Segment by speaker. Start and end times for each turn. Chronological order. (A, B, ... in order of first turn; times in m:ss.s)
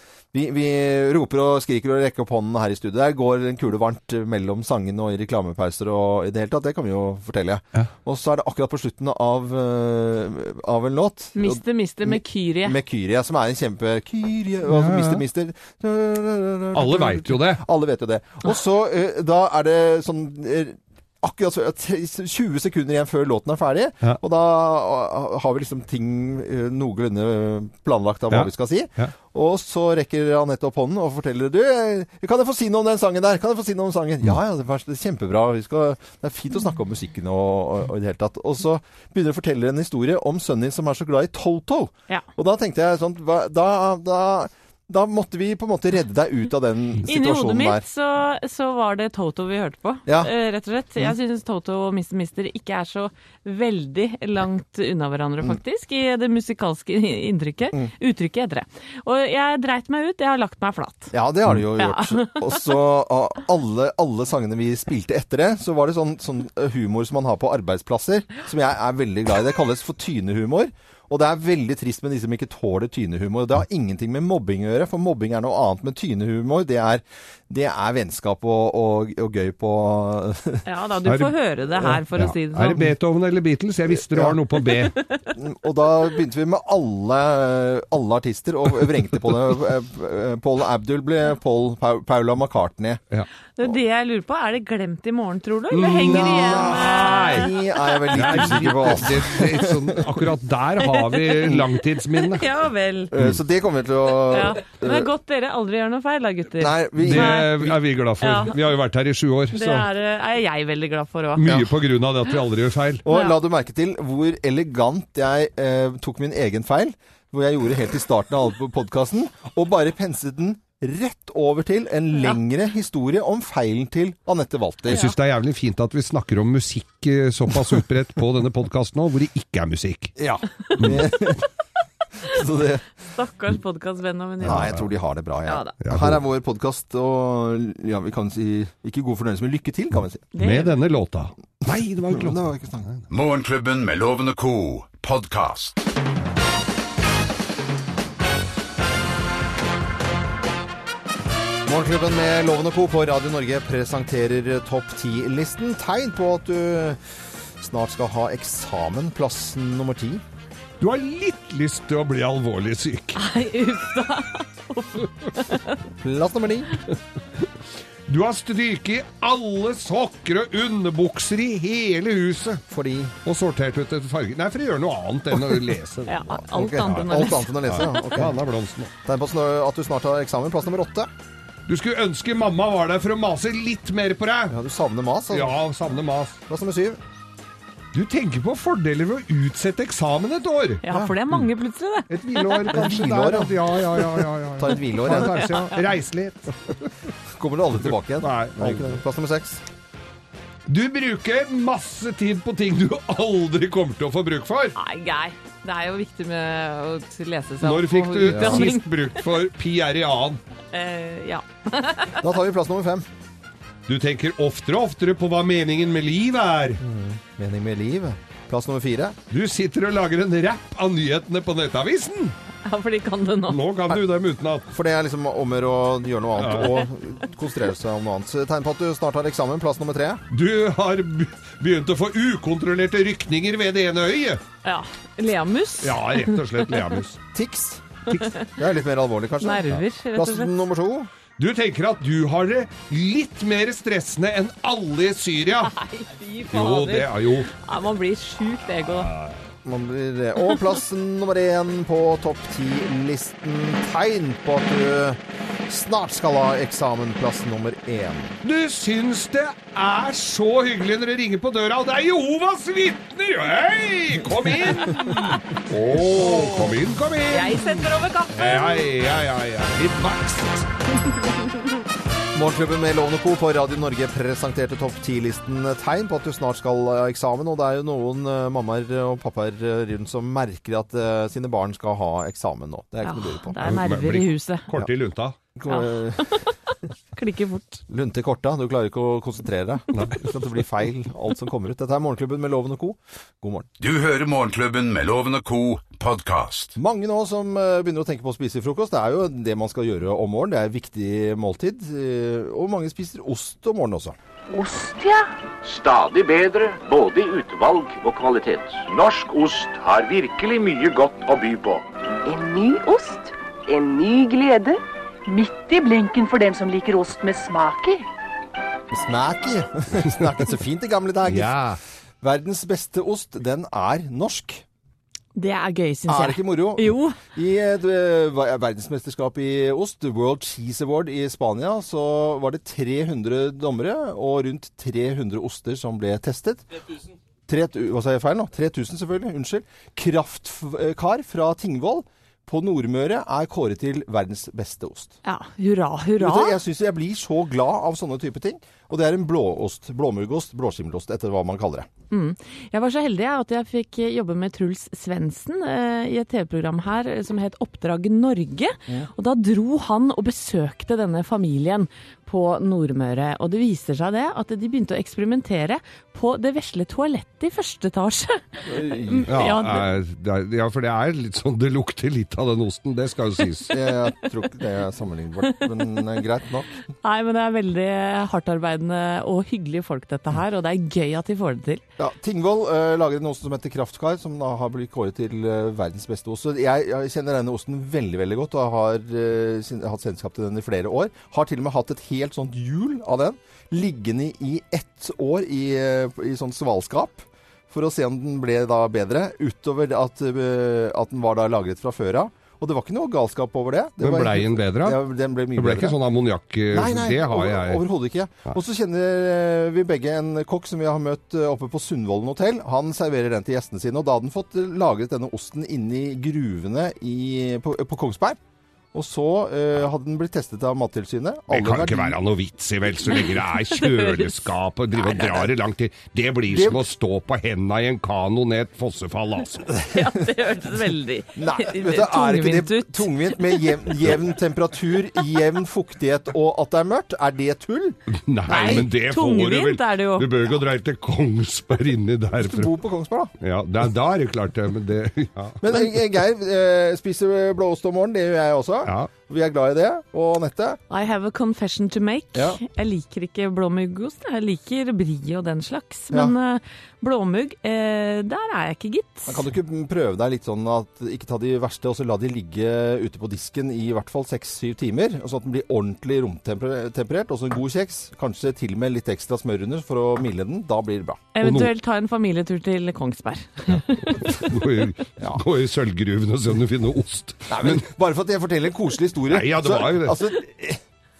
0:00.3-0:47.8 A
0:11.3-0:12.8 B
0:14.7-0:15.2 C
0:16.7-0:17.6 C
0:28.3-0:29.1 C
0:47.0-1:01.1 B
0:50.0-0:50.3 A
1:01.1-1:20.6 A
1:01.7-1:02.7 B
1:20.6-1:22.9 B
1:21.0-1:24.9 C
1:23.9-1:24.4 A
1:25.3-1:33.0 A
1:33.6-1:37.5 B
1:35.7-1:37.5 C
1:37.1-1:39.9 A
1:38.1-1:38.4 B
1:38.1-1:42.5 C
1:40.8-1:43.1 B
1:43.1-1:45.1 A
1:44.3-1:47.5 B
1:46.6-1:47.8 A
1:47.0-1:49.9 C
1:48.2-1:48.6 B
1:49.5-1:51.4 B
1:51.4-1:53.0 C
1:53.0-2:05.0 A
1:53.1-1:53.3 B
2:04.9-2:05.1 B
2:04.9-2:10.1 C
2:10.2-2:11.4 A
2:10.8-2:11.1 C
2:12.2-2:12.8 A
2:13.1-2:14.7 B
2:14.4-2:20.2 A
2:14.4-2:14.8 C
2:15.4-2:15.7 B
2:15.8-2:16.2 C
2:20.3-2:20.8 B
2:20.4-2:23.0 C
2:22.1-2:22.9 A
2:23.1-2:25.8 D
2:31.6-2:37.0 A
2:37.6-2:40.2 A
2:40.8-2:43.2 C
2:43.1-2:45.8 B
2:46.0-2:46.7 A
2:48.1-2:52.6 C
2:52.7-2:53.1 A
2:53.2-2:56.1 C
2:56.1-2:58.2 B
2:56.4-2:58.4 A
2:56.8-2:58.9 C
2:59.0-3:01.1 A
3:01.7-3:04.6 C
3:04.5-3:05.6 A
3:05.3-3:06.4 C
3:06.5-3:07.0 A
3:07.9-3:11.5 C
3:10.8-3:12.8 B
3:10.9-3:11.1 A
3:12.1-3:16.8 C
3:12.7-3:13.7 A
3:14.6-3:15.5 A
3:15.2-3:15.8 B
3:17.3-3:19.6 A
3:17.8-3:19.0 C
3:20.7-3:24.8 C
3:24.8-3:29.2 B
3:27.6-3:30.4 C
3:28.2-3:28.7 A
3:30.7-3:32.3 B
3:32.2-3:33.0 A
3:33.9-3:36.8 C
3:36.8-3:39.2 A
3:39.3-3:42.3 C
3:42.6-3:44.0 B
3:43.5-3:44.7 C
3:44.7-3:50.2 A
3:46.4-3:46.8 C
3:50.3-3:54.4 C
3:54.6-3:56.7 B
3:55.8-3:57.2 C
3:57.3-3:57.8 A
3:58.1-3:58.5 B
3:58.6-4:01.1 A
3:59.4-4:00.5 B
4:01.4-4:05.7 C
4:05.6-4:09.1 B
4:06.5-4:07.5 C
4:08.8-4:09.4 C
4:09.6-4:18.4 A
4:18.4-4:30.6 C
4:26.2-4:26.6 B
4:27.3-4:28.8 B
4:32.3-4:43.6 A
4:43.0-4:44.6 B
4:43.6-4:45.4 C
4:45.5-4:46.4 A
4:45.7-4:46.5 B
4:47.1-4:47.8 B
4:47.9-4:53.7 A
4:53.8-4:56.8 D
4:56.8-5:04.2 A
5:04.5-5:05.3 E
5:05.6-5:11.8 F
5:12.2-5:18.0 E
5:18.9-5:21.6 A
5:21.2-5:21.8 C
5:22.2-5:24.6 A
5:25.3-5:27.2 B
5:26.1-5:36.6 A
5:37.5-5:45.1 A
5:45.2-5:46.6 B
5:46.2-5:51.9 A
5:52.1-6:09.9 B
6:08.7-6:09.5 A
6:09.3-6:13.7 C
6:13.7-6:16.7 A
6:17.0-6:21.8 B
6:22.0-6:46.0 A
6:44.0-6:45.0 C
6:45.5-6:47.8 C
6:46.7-6:58.4 A
6:58.9-7:02.2 A
7:01.5-7:09.7 C
7:03.7-7:04.3 B
7:05.0-7:05.5 A
7:06.5-7:06.9 A
7:09.8-7:10.3 A
7:09.9-7:13.7 B
7:11.3-7:18.0 A
7:18.2-7:22.7 C
7:18.5-7:20.3 B
7:18.5-7:18.8 A
7:22.4-7:23.3 A
7:23.4-7:25.6 C
7:25.6-7:30.8 A
7:28.8-7:29.1 C
7:30.9-7:39.4 B
7:32.3-7:32.6 A
7:39.3-7:51.2 A
7:51.3-7:54.5 B
7:51.4-7:51.7 C
7:54.3-7:57.9 C
7:57.5-8:00.8 A
7:59.3-8:00.2 C